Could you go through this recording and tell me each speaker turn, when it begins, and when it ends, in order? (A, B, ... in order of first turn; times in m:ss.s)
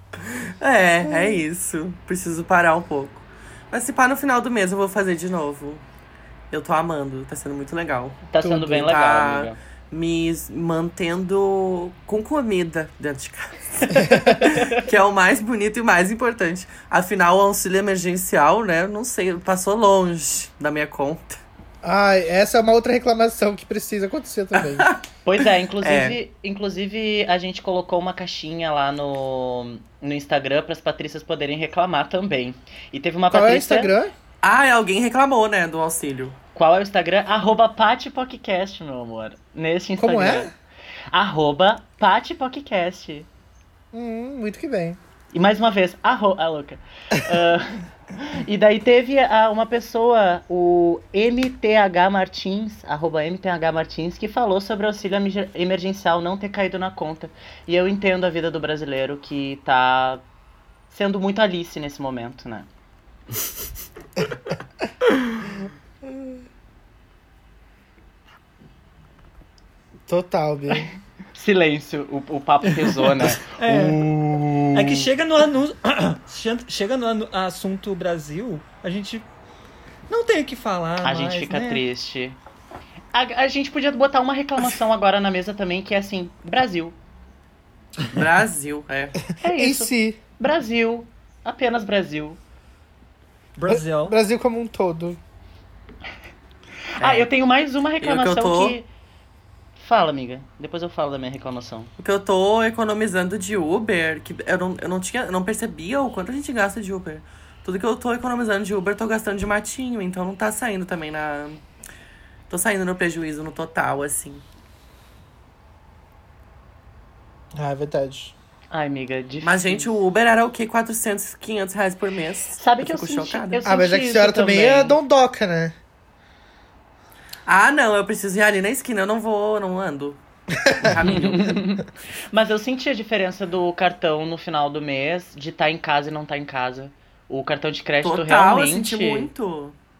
0:00.3-0:05.8 A
0:06.5-0:21.4 A
0:08.3-0:09.6 B
0:08.4-0:08.8 C
0:13.9-0:14.4 C
0:21.8-0:24.9 C
0:24.5-0:25.0 A
0:25.2-0:33.9 B
0:25.8-0:26.2 A
0:33.3-0:34.1 C
0:34.4-0:36.4 A
0:36.5-0:40.5 B
0:40.0-0:40.5 C
0:41.1-0:43.3 B
0:43.9-0:45.0 C
0:45.3-1:00.2 B
1:00.9-1:02.7 B
1:10.1-1:10.9 C
1:11.3-1:15.1 B
1:13.6-1:14.0 D
1:14.7-1:19.2 D
1:20.1-1:21.8 D
1:21.0-1:22.4 B
1:23.1-1:27.0 B
1:28.1-1:29.2 A
1:29.4-1:32.4 B
1:29.5-1:30.2 C
1:33.6-1:34.1 D
1:33.7-1:35.2 C
1:37.0-1:38.9 B
1:37.0-1:37.3 A
1:38.0-1:38.8 A
1:39.8-1:41.9 B
1:42.0-1:51.6 A
1:52.5-1:54.4 A
1:57.5-1:58.3 C
1:58.7-1:59.9 B
1:59.4-2:03.6 A
2:02.6-2:05.0 B
2:03.6-2:05.8 C
2:07.4-2:10.2 A
2:10.6-2:10.9 C
2:10.7-2:11.6 A
2:11.0-2:19.3 B
2:18.0-2:19.7 A